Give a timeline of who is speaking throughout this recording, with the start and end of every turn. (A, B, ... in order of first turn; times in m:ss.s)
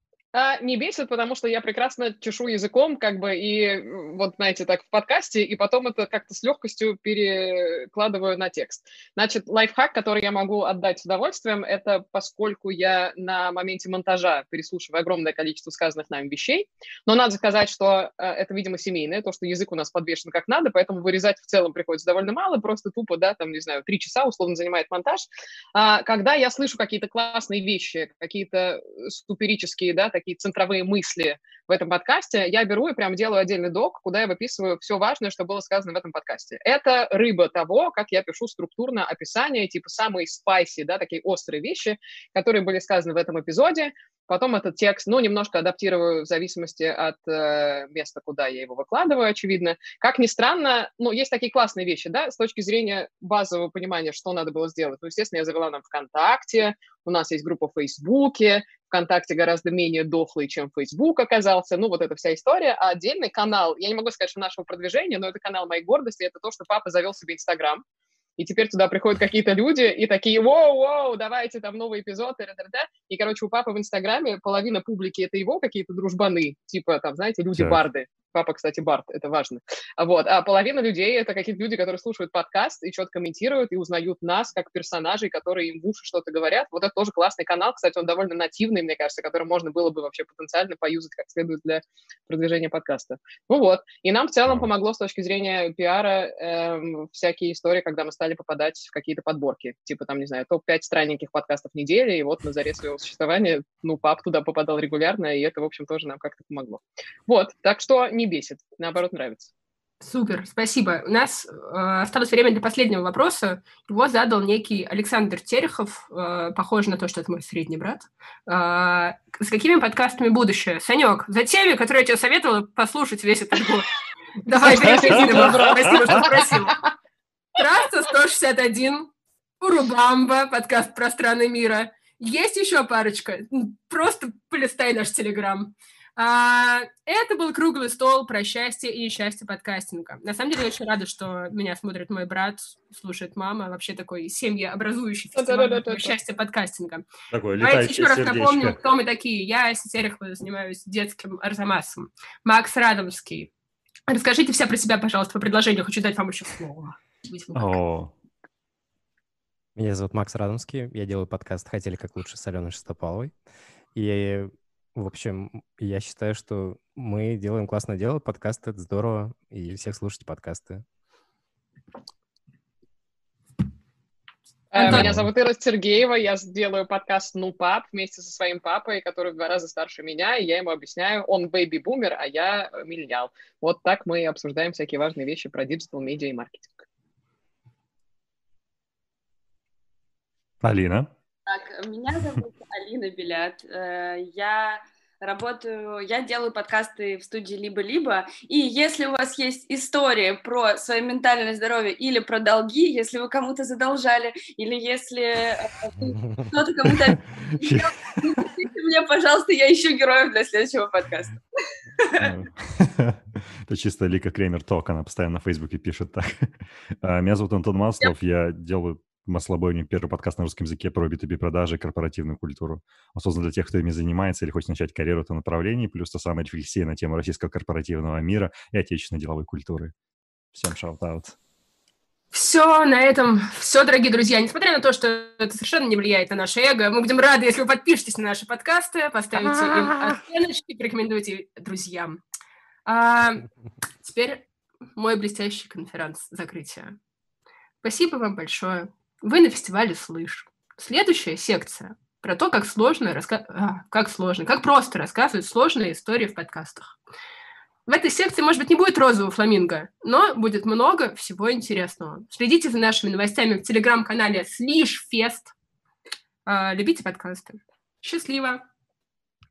0:00.3-1:07.8 A
1:08.4-1:49.5 A
1:17.5-1:17.8 B
1:50.0-2:03.9 C
2:04.4-2:06.8 C
2:04.8-2:06.3 A
2:07.6-2:27.0 C
2:25.4-2:26.2 A
2:27.3-2:28.8 B
2:27.6-2:33.5 C
2:34.1-2:37.8 C
2:37.5-2:38.1 B
2:39.8-2:43.3 D
2:43.9-2:50.8 D
2:54.7-3:06.8 A
2:54.8-2:55.1 C
2:54.8-2:55.3 B
3:10.6-3:11.1 B
3:11.5-3:31.4 E
3:26.8-3:28.5 B
3:32.0-3:32.3 E
3:32.2-3:49.9 B
3:50.5-3:51.4 B
3:52.3-4:02.2 C
4:02.9-4:03.5 C
4:04.0-4:07.0 C
4:07.8-4:17.0 C
4:17.9-4:25.5 C
4:26.5-4:28.6 C